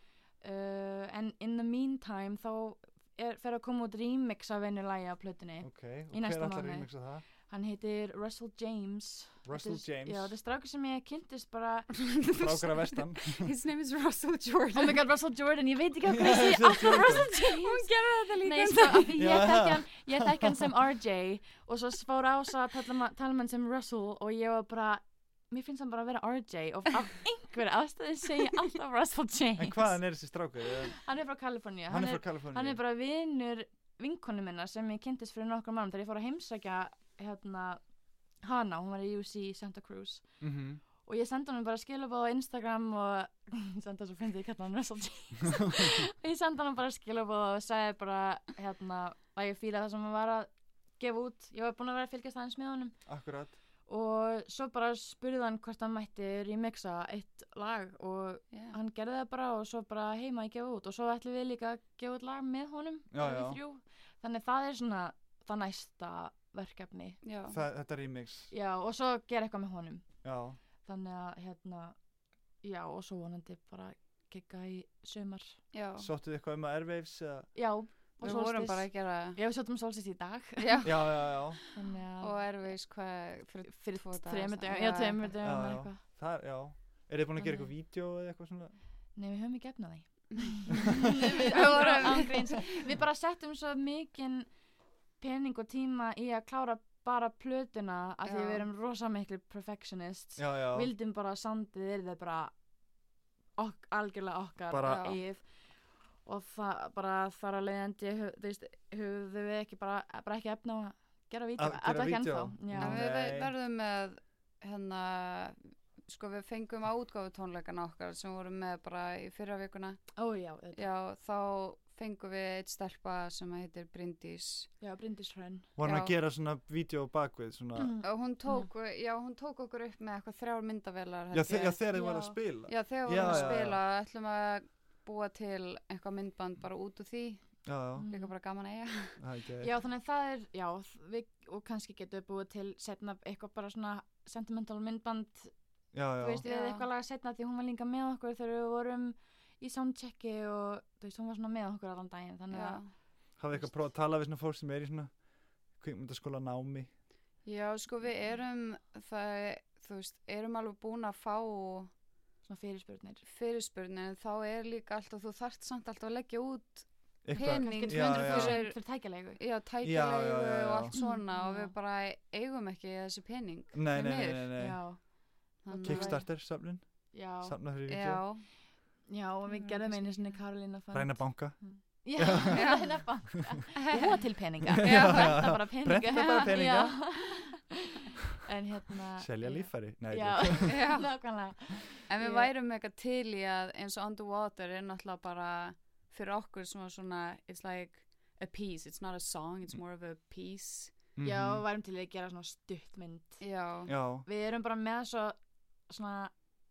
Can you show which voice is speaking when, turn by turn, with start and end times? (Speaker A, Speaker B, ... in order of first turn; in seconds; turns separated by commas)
Speaker A: 0.4-6.9, Speaker B: 5.6-7.2, Speaker A: 7.4-11.9, Speaker B: 9.4-10.3, Speaker C: 12.0-15.0, Speaker B: 12.3-13.5, Speaker A: 14.7-17.9, Speaker B: 16.1-17.2, Speaker C: 17.3-19.2, Speaker A: 18.4-30.0, Speaker B: 19.2-20.7, Speaker B: 29.6-31.0, Speaker A: 31.0-37.8, Speaker B: 31.9-32.8, Speaker A: 38.4-40.2, Speaker B: 40.4-40.8, Speaker A: 41.0-52.9, Speaker B: 45.5-45.9, Speaker B: 53.1-53.5, Speaker A: 53.9-67.2, Speaker C: 58.5-58.8, Speaker B: 63.1-63.6, Speaker C: 67.2-67.6, Speaker B: 67.5-68.5, Speaker A: 68.5-70.0, Speaker B: 70.2-70.6, Speaker A: 70.8-72.0, Speaker A: 72.6-75.6, Speaker C: 75.7-76.1, Speaker B: 76.0-77.5, Speaker A: 77.5-80.9, Speaker C: 78.2-79.4, Speaker C: 80.6-81.6, Speaker B: 80.8-81.6, Speaker A: 81.7-82.3, Speaker C: 82.2-85.3, Speaker A: 83.7-86.0, Speaker B: 85.4-88.7, Speaker A: 87.4-87.7, Speaker A: 89.2-94.5, Speaker C: 91.1-92.6, Speaker A: 95.2-102.5, Speaker C: 98.2-98.6, Speaker B: 100.4-100.9, Speaker A: 103.6-105.4, Speaker B: 104.7-105.0, Speaker C: 104.8-105.2, Speaker A: 106.2-113.0, Speaker B: 111.6-113.5, Speaker C: 112.8-120.0, Speaker A: 120.2-120.8, Speaker C: 120.7-124.7, Speaker A: 124.8-125.7, Speaker B: 125.8-128.0, Speaker C: 125.8-126.1, Speaker A: 127.8-128.7, Speaker C: 128.0-131.8, Speaker B: 131.3-133.8, Speaker A: 131.9-132.4, Speaker C: 132.7-137.5, Speaker A: 133.2-133.6, Speaker B: 137.7-138.1, Speaker A: 138.0-138.3, Speaker C: 138.1-139.2, Speaker B: 139.2-139.7, Speaker A: 139.6-145.5, Speaker B: 145.9-146.4, Speaker A: 146.2-152.8, Speaker C: 146.4-146.9, Speaker C: 152.5-152.9, Speaker B: 153.4-155.1, Speaker B: 155.8-156.9, Speaker C: 157.4-161.9, Speaker A: 162.4-163.2, Speaker C: 163.2-168.8, Speaker B: 167.2-168.6, Speaker A: 167.3-169.4, Speaker C: 169.4-174.5, Speaker B: 169.8-170.9, Speaker A: 170.9-171.7, Speaker B: 173.7-174.8, Speaker A: 174.6-175.0, Speaker A: 175.6-176.2, Speaker C: 175.6-176.2, Speaker B: 175.8-178.2, Speaker A: 177.1-177.6, Speaker C: 177.9-178.5, Speaker A: 179.1-192.5, Speaker C: 179.5-180.2, Speaker B: 180.9-181.6, Speaker B: 182.2-182.7, Speaker C: 182.5-182.9, Speaker C: 183.8-184.1, Speaker B: 184.8-187.0, Speaker C: 184.8-186.5, Speaker B: 189.2-190.8, Speaker C: 190.7-191.1, Speaker C: 192.1-201.0, Speaker B: 201.2-201.6, Speaker A: 201.2-203.4, Speaker C: 203.4-203.9, Speaker B: 203.9-204.3, Speaker A: 204.2-205.4, Speaker A: 205.9-206.3